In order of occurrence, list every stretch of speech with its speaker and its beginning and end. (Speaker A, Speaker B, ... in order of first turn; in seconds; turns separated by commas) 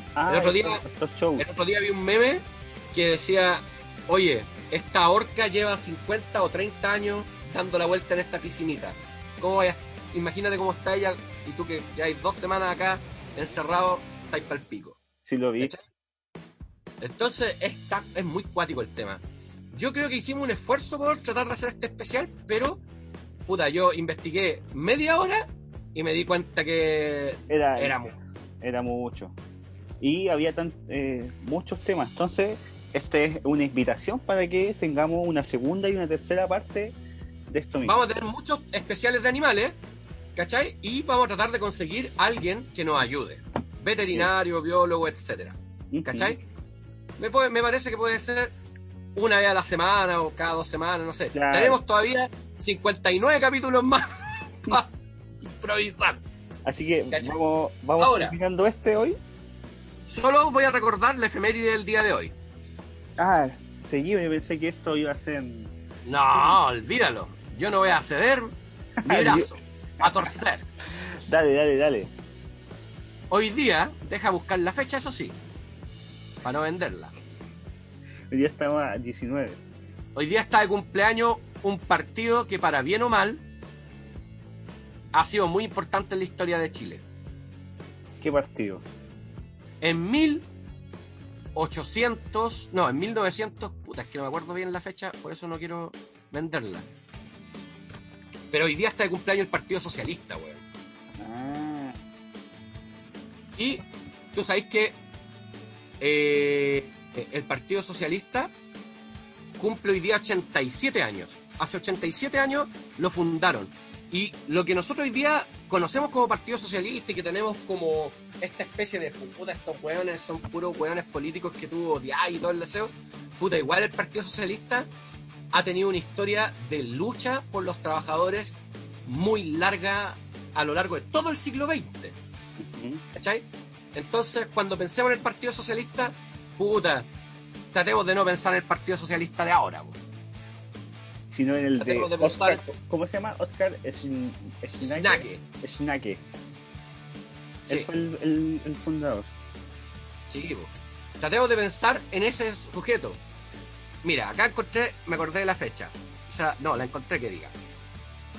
Speaker A: 0.2-1.5, Speaker B: 0.3-0.8, Speaker B: 1.4-15.0, Speaker A: 15.2-15.7, Speaker B: 17.0-22.8, Speaker B: 23.5-28.1, Speaker A: 27.5-28.1, Speaker A: 28.6-29.4, Speaker A: 30.0-37.0, Speaker A: 37.5-38.0, Speaker B: 37.8-39.8, Speaker B: 40.4-46.4, Speaker A: 45.9-46.4, Speaker B: 47.2-48.5, Speaker B: 49.1-56.2, Speaker A: 51.3-51.8, Speaker A: 56.6-59.2, Speaker B: 58.0-58.4, Speaker B: 60.1-62.3, Speaker A: 63.2-65.7, Speaker B: 66.1-70.7, Speaker A: 69.0-70.3, Speaker A: 71.3-72.1, Speaker B: 73.3-75.4, Speaker B: 76.4-77.1, Speaker A: 78.3-79.6, Speaker B: 80.2-83.4, Speaker B: 85.1-87.0, Speaker A: 88.2-88.8, Speaker B: 89.8-90.5, Speaker B: 91.5-96.9, Speaker B: 98.5-100.6, Speaker A: 101.2-102.0, Speaker B: 103.6-105.0, Speaker B: 106.0-108.5, Speaker B: 109.6-124.9, Speaker B: 125.5-132.2, Speaker A: 132.6-133.0, Speaker B: 133.1-137.1, Speaker B: 137.7-140.0, Speaker A: 141.3-146.2, Speaker B: 141.8-142.7, Speaker B: 144.8-145.4, Speaker A: 147.7-149.3, Speaker B: 150.3-153.2, Speaker B: 154.0-157.6